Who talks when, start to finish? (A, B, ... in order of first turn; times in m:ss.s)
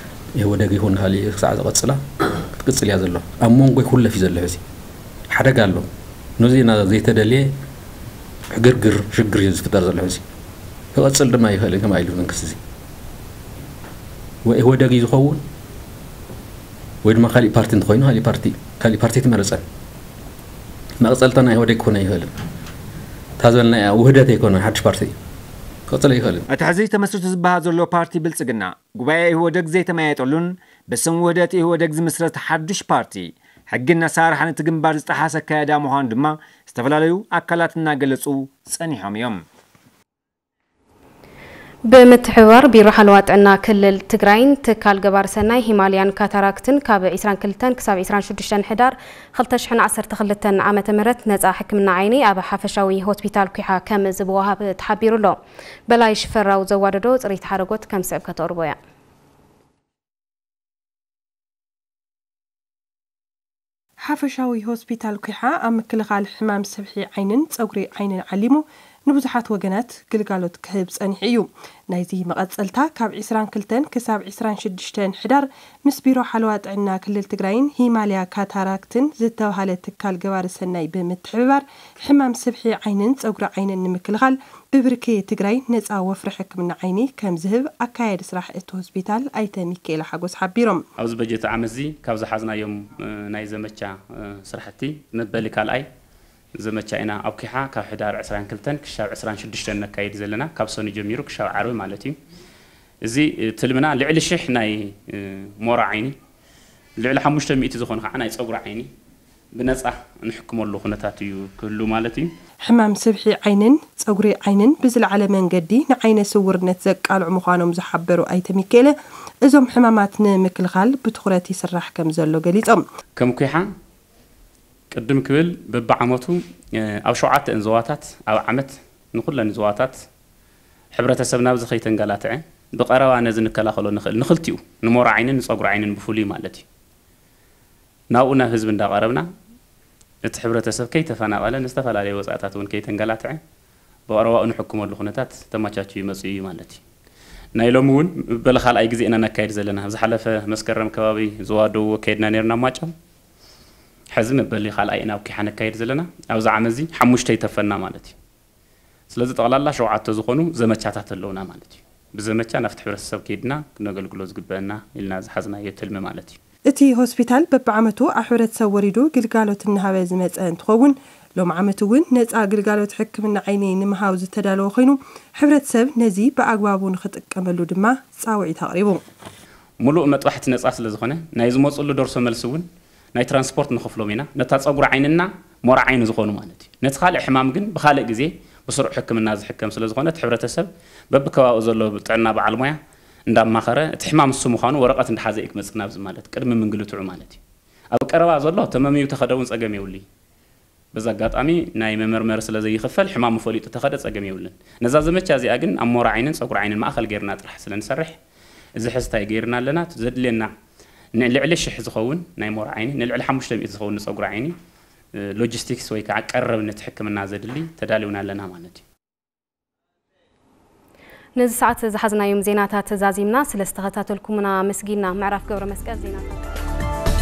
0:00.4-0:04.6 A
0:05.3-0:07.5 A
0:08.5-0:10.2 A
0:10.9-0:12.6 A
0:14.4-0:15.4 A
0:17.0-0:19.6 A
0:21.0-0:22.3 A
0:23.4-0:25.2 A
0:25.9-0:26.4 A
0:26.5-0:39.4 B
0:41.9-0:58.8 C
1:04.0-1:30.8 D
1:31.0-1:35.9 E
1:36.6-1:42.2 E
1:43.0-1:46.2 E
1:47.0-1:48.9 E
1:49.5-1:52.3 E
1:52.6-2:02.8 D
2:03.2-2:03.7 E
2:04.9-2:09.9 E
2:10.9-2:16.6 E
2:18.1-2:19.3 E
2:20.2-2:23.4 E
2:24.1-2:26.8 E
2:27.6-2:32.9 E
2:34.1-2:38.2 E
2:39.1-2:46.4 E
2:46.7-2:59.0 D
2:59.8-3:12.8 E
3:13.3-3:17.4 E
3:17.9-3:20.0 E
3:20.9-3:28.2 E
3:28.8-3:30.5 E
3:31.2-3:34.6 E
3:35.2-3:38.8 E
3:41.4-3:46.6 C